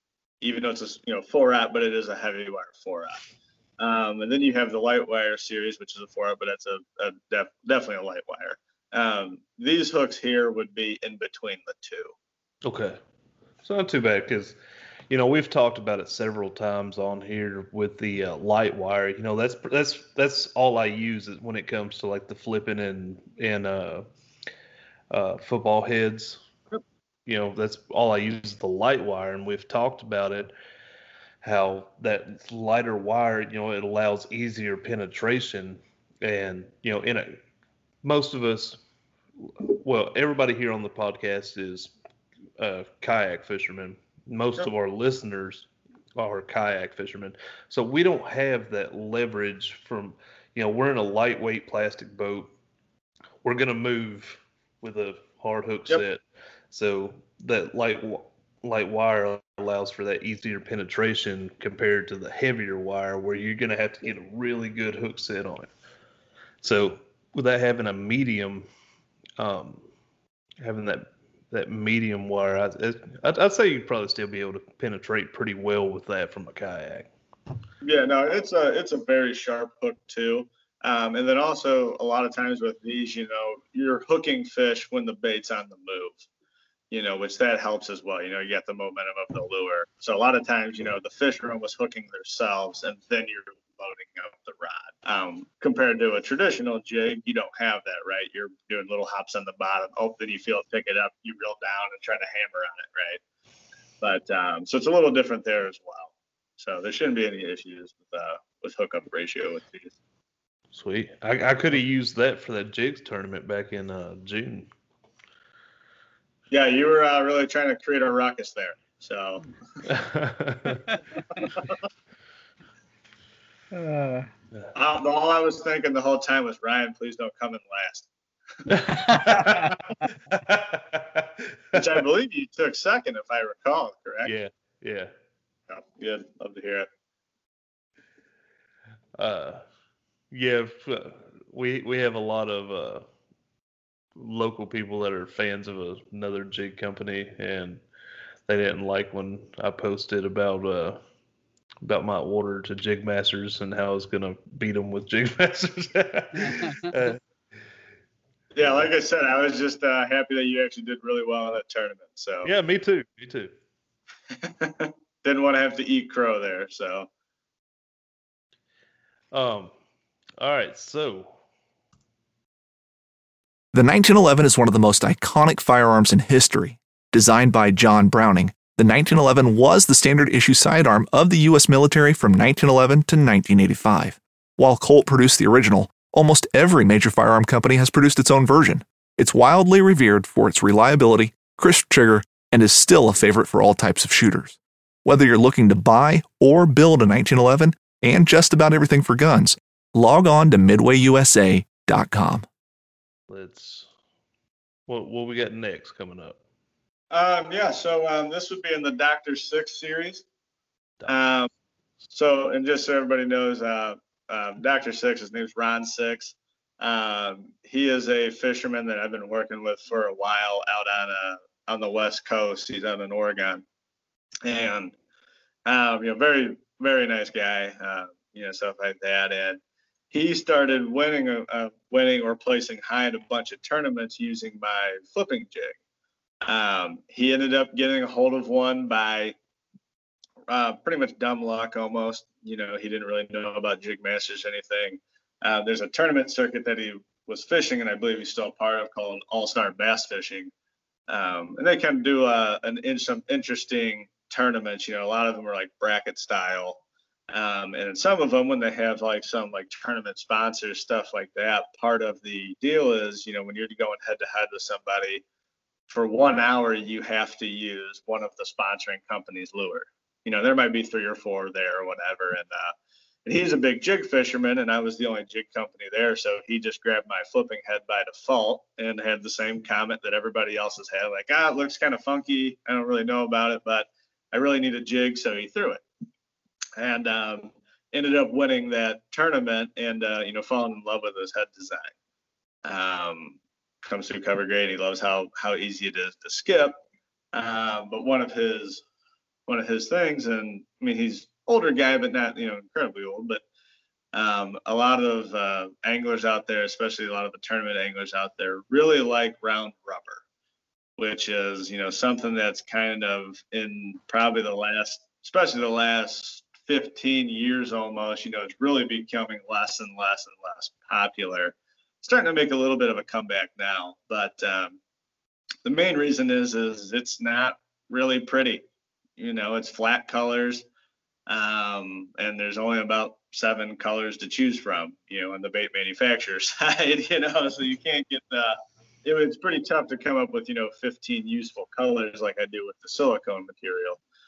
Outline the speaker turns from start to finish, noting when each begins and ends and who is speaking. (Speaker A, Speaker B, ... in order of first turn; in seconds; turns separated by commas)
Speaker A: 0.4-3.2, Speaker A: 3.8-12.1, Speaker B: 12.6-13.0, Speaker B: 13.6-14.6, Speaker B: 15.1-24.1, Speaker B: 25.1-26.4, Speaker B: 27.3-30.5, Speaker B: 31.4-37.4, Speaker B: 38.0-38.8, Speaker B: 39.6-41.9, Speaker B: 42.6-52.5, Speaker B: 53.4-65.7, Speaker B: 66.6-68.7, Speaker B: 69.4-69.9, Speaker B: 70.6-77.1, Speaker A: 77.8-86.2, Speaker A: 86.9-103.2, Speaker A: 104.0-109.9, Speaker B: 110.7-114.7, Speaker A: 116.5-119.5, Speaker B: 119.8-120.8, Speaker A: 121.4-121.8, Speaker C: 123.7-124.3, Speaker A: 124.8-128.1, Speaker B: 128.7-129.7, Speaker C: 128.7-129.7, Speaker B: 130.3-132.0, Speaker A: 131.7-134.3, Speaker B: 134.2-135.1, Speaker A: 135.7-136.9, Speaker B: 139.2-139.6, Speaker B: 140.3-143.1, Speaker B: 144.2-147.8, Speaker B: 148.5-151.0, Speaker B: 151.8-157.2, Speaker C: 156.4-156.8, Speaker A: 158.5-162.5, Speaker B: 158.6-158.9, Speaker B: 162.4-163.5, Speaker A: 164.4-167.1, Speaker B: 169.3-169.7, Speaker B: 170.4-171.4, Speaker D: 173.7-202.5, Speaker B: 203.3-203.9, Speaker B: 204.9-206.4, Speaker A: 207.1-210.2, Speaker A: 211.1-211.5, Speaker A: 212.1-223.7, Speaker A: 224.4-224.9, Speaker A: 225.7-235.8, Speaker A: 236.4-239.3, Speaker A: 240.5-250.5, Speaker A: 251.1-265.2, Speaker A: 265.9-272.8, Speaker A: 273.3-285.8, Speaker A: 286.8-291.9, Speaker A: 292.6-296.8, Speaker A: 297.3-298.8, Speaker A: 299.5-303.4, Speaker A: 304.1-310.2, Speaker A: 311.0-324.8, Speaker A: 325.6-328.6, Speaker A: 329.2-330.7, Speaker A: 331.3-344.0